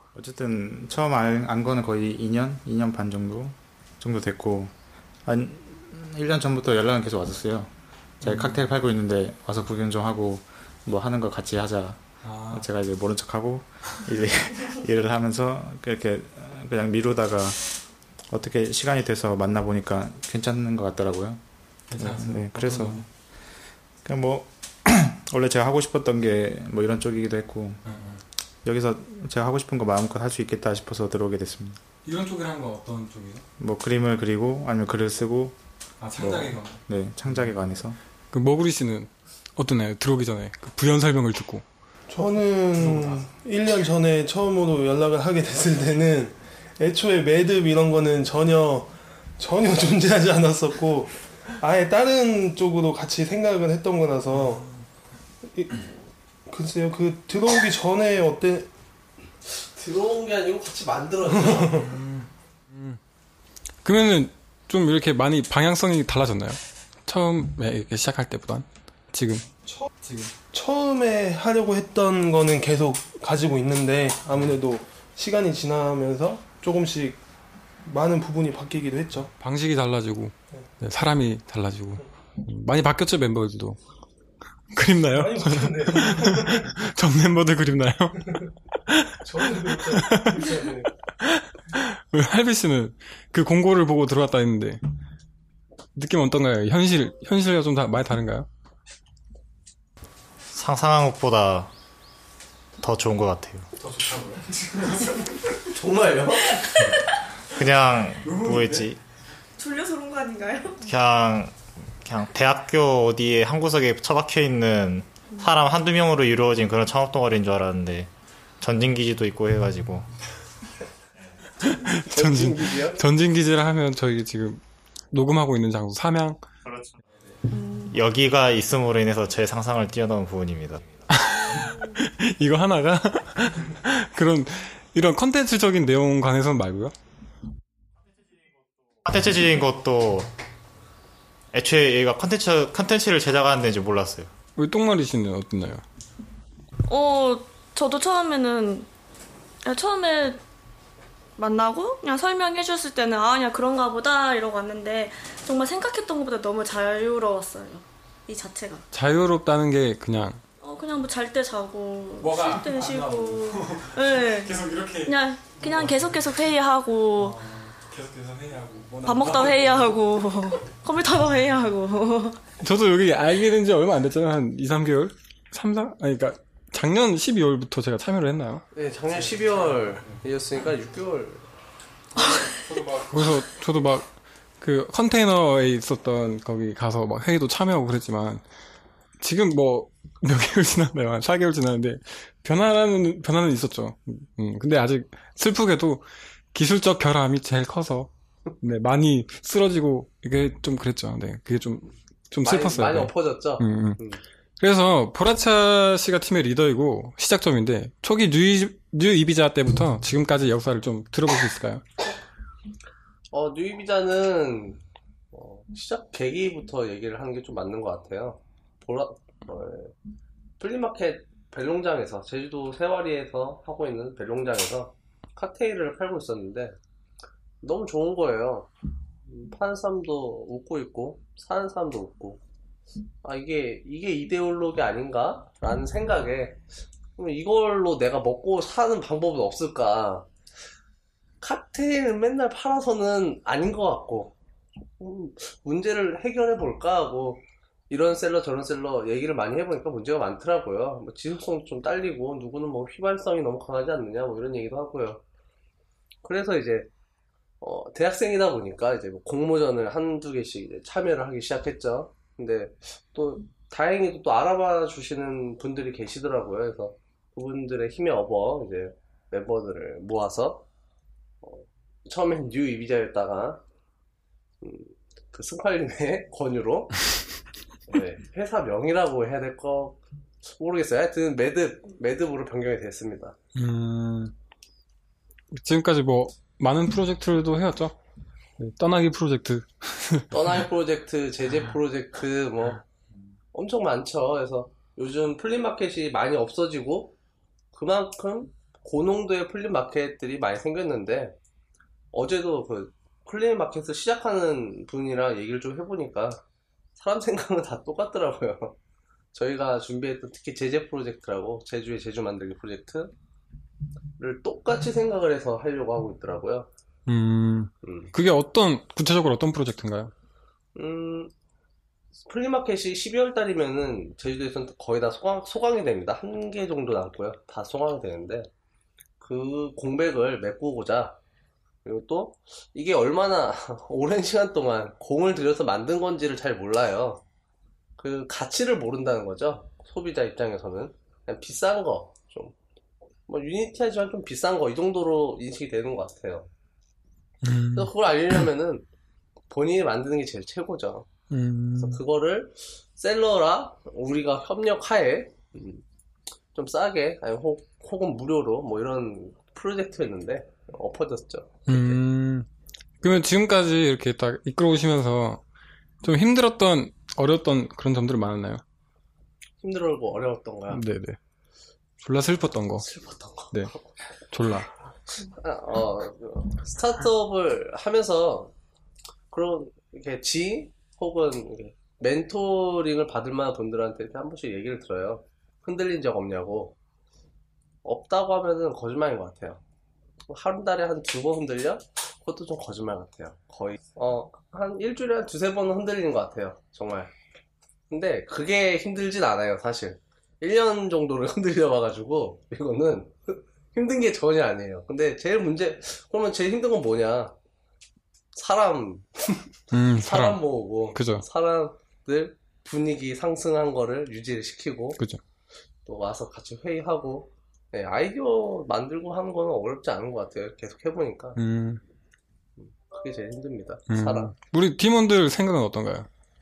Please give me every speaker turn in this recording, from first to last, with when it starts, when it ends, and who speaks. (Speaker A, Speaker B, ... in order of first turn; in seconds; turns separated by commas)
Speaker A: 0.1-4.7, Speaker A: 5.2-17.7, Speaker B: 8.2-8.6, Speaker B: 12.2-12.6, Speaker A: 18.3-21.4, Speaker B: 21.9-23.0, Speaker A: 21.9-23.1, Speaker A: 24.0-27.9, Speaker B: 27.9-28.2, Speaker A: 28.6-31.8, Speaker B: 32.0-33.4, Speaker A: 33.6-35.6, Speaker B: 36.0-36.8, Speaker A: 36.2-38.0, Speaker B: 38.3-41.6, Speaker C: 42.1-54.7, Speaker B: 42.8-43.2, Speaker C: 55.5-55.8, Speaker C: 56.5-58.7, Speaker D: 59.5-61.9, Speaker C: 61.5-61.9, Speaker B: 61.9-63.0, Speaker B: 63.8-69.5, Speaker B: 70.0-70.3, Speaker C: 70.5-77.2, Speaker C: 77.8-79.3, Speaker B: 79.4-83.8, Speaker B: 84.7-90.6, Speaker C: 85.1-86.7, Speaker C: 89.2-90.9, Speaker B: 91.2-94.8, Speaker B: 96.0-98.5, Speaker E: 100.5-101.7, Speaker E: 102.8-103.7, Speaker B: 103.8-105.3, Speaker D: 105.7-106.7, Speaker E: 107.5-109.0, Speaker B: 108.2-108.8, Speaker F: 109.6-110.8, Speaker E: 110.9-118.1, Speaker E: 118.6-120.1, Speaker E: 121.2-121.4, Speaker B: 121.7-124.6, Speaker D: 122.1-123.0, Speaker B: 125.1-126.4, Speaker E: 126.7-127.0, Speaker F: 127.5-127.9, Speaker E: 127.9-130.9, Speaker B: 131.1-136.9, Speaker F: 131.5-131.9, Speaker E: 138.3-140.3, Speaker E: 141.5-144.3, Speaker B: 144.6-145.8, Speaker F: 146.9-148.9, Speaker F: 149.6-150.4, Speaker F: 151.4-158.8, Speaker B: 158.9-160.4, Speaker F: 160.6-167.4, Speaker B: 162.2-166.3, Speaker B: 167.2-169.9, Speaker F: 169.1-172.4, Speaker B: 172.6-178.7, Speaker D: 178.7-181.5, Speaker B: 182.2-184.1, Speaker F: 182.3-182.5, Speaker B: 184.6-188.4, Speaker B: 189.2-198.1, Speaker B: 198.6-204.0, Speaker D: 202.4-204.2, Speaker B: 204.6-211.8, Speaker D: 213.3-214.8, Speaker D: 215.3-219.9, Speaker D: 220.6-226.8, Speaker D: 227.6-228.7, Speaker D: 229.3-232.4, Speaker D: 233.2-236.6, Speaker D: 237.2-240.3, Speaker D: 241.4-244.4, Speaker D: 245.0-255.2, Speaker D: 256.2-256.9, Speaker D: 257.6-270.6, Speaker D: 271.4-273.6, Speaker D: 274.6-277.0, Speaker D: 277.9-283.4, Speaker B: 283.6-284.3, Speaker B: 285.5-287.9, Speaker B: 288.6-290.3, Speaker D: 290.3-292.8, Speaker D: 293.5-297.1, Speaker D: 297.7-301.4, Speaker D: 302.1-306.4, Speaker D: 307.0-308.8, Speaker D: 309.3-313.1, Speaker D: 314.2-316.7, Speaker B: 317.1-320.1, Speaker D: 317.8-318.1, Speaker D: 320.8-321.3, Speaker D: 322.2-328.5, Speaker D: 329.2-331.2, Speaker D: 331.9-337.2, Speaker D: 338.0-342.5, Speaker D: 343.3-346.5, Speaker B: 347.4-347.9, Speaker D: 347.7-348.9, Speaker D: 349.5-351.1, Speaker B: 351.3-352.0, Speaker D: 351.8-355.8, Speaker D: 356.5-362.0, Speaker B: 361.7-362.5, Speaker B: 363.0-365.4, Speaker B: 366.0-368.6, Speaker D: 369.6-370.8, Speaker B: 370.7-371.2, Speaker B: 372.0-372.9, Speaker D: 372.8-373.8, Speaker B: 374.3-374.7, Speaker D: 375.2-378.5, Speaker D: 379.3-386.8, Speaker D: 387.8-389.6, Speaker D: 390.3-397.1, Speaker D: 397.9-407.3, Speaker D: 408.4-409.3, Speaker B: 409.7-411.2, Speaker D: 409.9-415.0, Speaker D: 415.9-421.4, Speaker B: 421.4-421.8, Speaker D: 422.6-424.4, Speaker B: 423.9-426.1